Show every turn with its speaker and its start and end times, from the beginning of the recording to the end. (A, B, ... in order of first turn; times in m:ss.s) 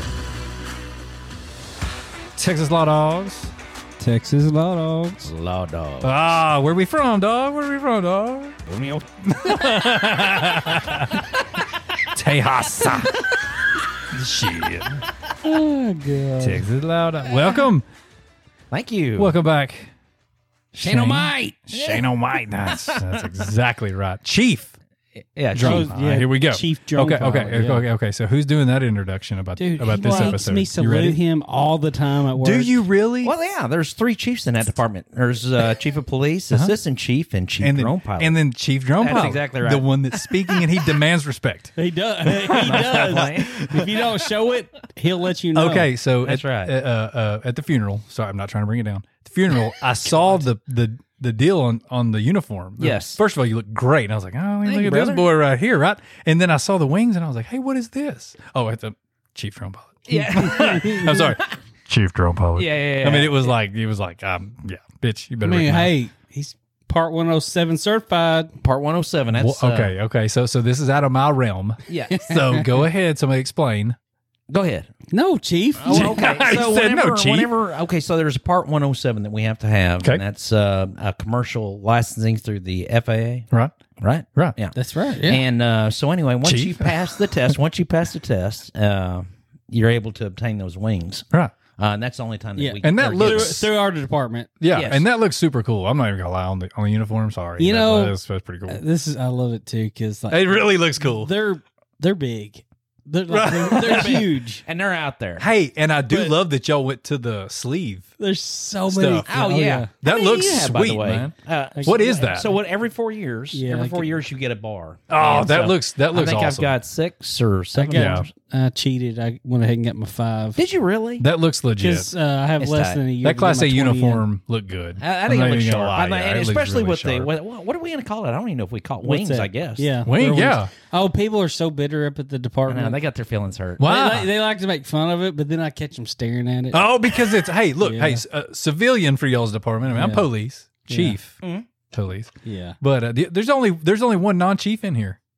0:02.4-0:03.5 A
0:04.0-0:05.3 B
0:05.2-0:06.2 C
0:06.0-0:08.6 A
0:08.7-0:11.2 C
0:09.2-0:11.3 A
0:12.1-0:13.2 A
0:12.9-0:13.4 C
0:14.1-0:15.0 A
0:15.4-0:16.6 B
0:16.4-0:17.8 A
0:18.7-0:19.3 C
0:19.2-0:19.9 A
0:20.7-0:24.7 A
0:20.8-0:23.4 C
0:25.4-0:25.9 C
0:25.5-0:31.2 A
0:25.6-0:27.8 B
0:29.6-0:32.8 B
0:29.9-0:30.4 C
0:32.4-0:33.3 A
0:33.2-0:38.4 C
0:37.6-0:41.7 A
0:39.0-0:40.7 C
0:41.8-0:45.9 B
0:42.4-0:43.5 A
0:42.5-0:44.1 C
0:45.6-1:05.9 A
0:46.2-0:46.7 C
0:50.0-0:50.4 C
0:52.8-0:53.2 C
0:54.6-0:55.2 C
1:00.1-1:01.6 C
1:00.5-1:01.0 B
1:02.6-1:03.5 C
1:05.4-1:08.6 B
1:08.6-1:09.9 C
1:09.4-1:14.0 A
1:11.9-1:12.3 C
1:12.2-1:12.7 B
1:14.5-1:14.9 C
1:15.1-1:16.2 B
1:15.8-1:23.5 C
1:15.9-1:17.5 A
1:24.0-1:33.6 C
1:24.8-1:25.4 B
1:26.4-1:27.4 A
1:32.6-1:34.5 B
1:32.8-1:33.7 A
1:34.6-1:38.8 A
1:34.7-1:35.0 C
1:37.6-1:38.2 B
1:38.7-1:44.6 B
1:40.3-1:41.3 A
1:43.3-1:44.2 A
1:43.6-1:45.5 C
1:45.4-1:48.1 A
1:46.1-1:46.3 B
1:48.2-1:49.9 B
1:48.9-1:49.3 A
1:49.3-1:58.3 C
1:50.0-1:52.5 A
1:51.8-1:52.5 B
1:53.5-1:54.1 B
1:55.1-1:56.7 A
1:57.8-2:00.6 B
1:57.9-1:58.3 A
2:00.6-2:01.2 C
2:01.2-2:02.1 A
2:01.8-2:04.2 B
2:02.6-2:03.0 C
2:03.2-2:07.3 A
2:05.0-2:09.9 C
2:09.0-2:13.0 B
2:10.0-2:10.7 A
2:12.7-2:13.8 C
2:13.8-2:14.3 A
2:13.8-2:16.8 B
2:16.7-2:21.4 A
2:17.8-2:18.2 B
2:19.9-2:20.3 B
2:20.9-2:21.2 B
2:21.9-2:25.2 A
2:22.4-2:22.8 B